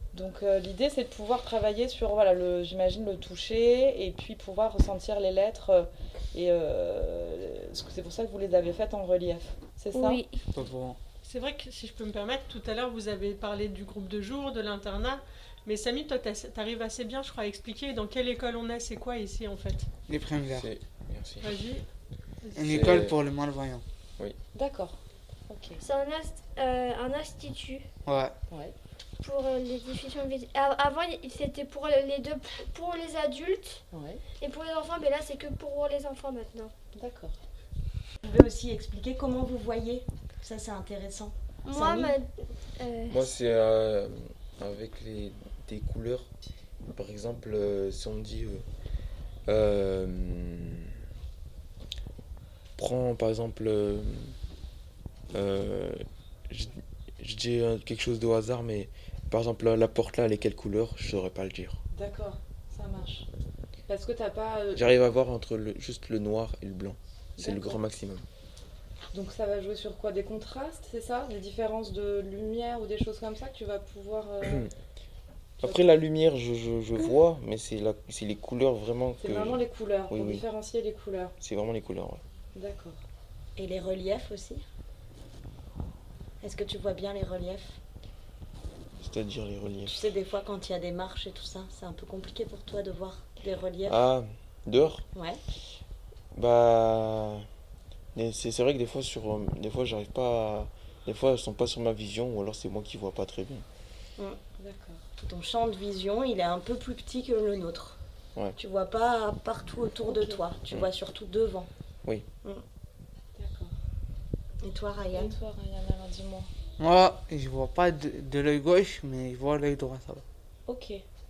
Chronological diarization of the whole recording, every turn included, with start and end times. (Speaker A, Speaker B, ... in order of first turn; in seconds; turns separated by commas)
Speaker A: 0.1-10.2, Speaker B: 9.9-10.4, Speaker C: 10.5-11.0, Speaker D: 11.2-19.9, Speaker C: 20.1-20.7, Speaker E: 20.5-21.5, Speaker D: 21.4-21.8, Speaker D: 22.4-22.8, Speaker C: 22.6-23.8, Speaker E: 22.6-23.1, Speaker A: 24.5-25.0, Speaker A: 25.5-25.8, Speaker B: 25.8-27.9, Speaker C: 28.1-28.3, Speaker B: 29.2-33.8, Speaker A: 33.9-34.2, Speaker B: 34.4-36.7, Speaker A: 36.9-37.4, Speaker F: 38.2-42.1, Speaker B: 41.6-43.2, Speaker E: 43.1-46.3, Speaker E: 46.9-48.6, Speaker E: 49.5-50.9, Speaker E: 52.8-54.3, Speaker E: 55.3-61.8, Speaker A: 61.9-63.3, Speaker A: 63.9-64.8, Speaker E: 64.7-68.2, Speaker A: 67.4-67.8, Speaker A: 69.1-74.7, Speaker A: 75.6-75.9, Speaker E: 75.6-80.4, Speaker A: 79.2-81.3, Speaker E: 81.4-82.2, Speaker A: 82.5-83.0, Speaker F: 83.5-84.6, Speaker F: 86.4-87.8, Speaker E: 89.0-90.0, Speaker F: 89.8-94.0, Speaker E: 93.8-95.0, Speaker F: 95.1-95.4, Speaker E: 96.3-97.5, Speaker E: 98.1-103.6, Speaker A: 104.6-105.0, Speaker F: 105.2-108.0, Speaker F: 108.6-111.7, Speaker A: 110.0-110.4, Speaker A: 113.3-113.7, Speaker F: 114.6-115.3, Speaker A: 115.1-116.5, Speaker C: 116.8-120.2, Speaker A: 120.7-121.0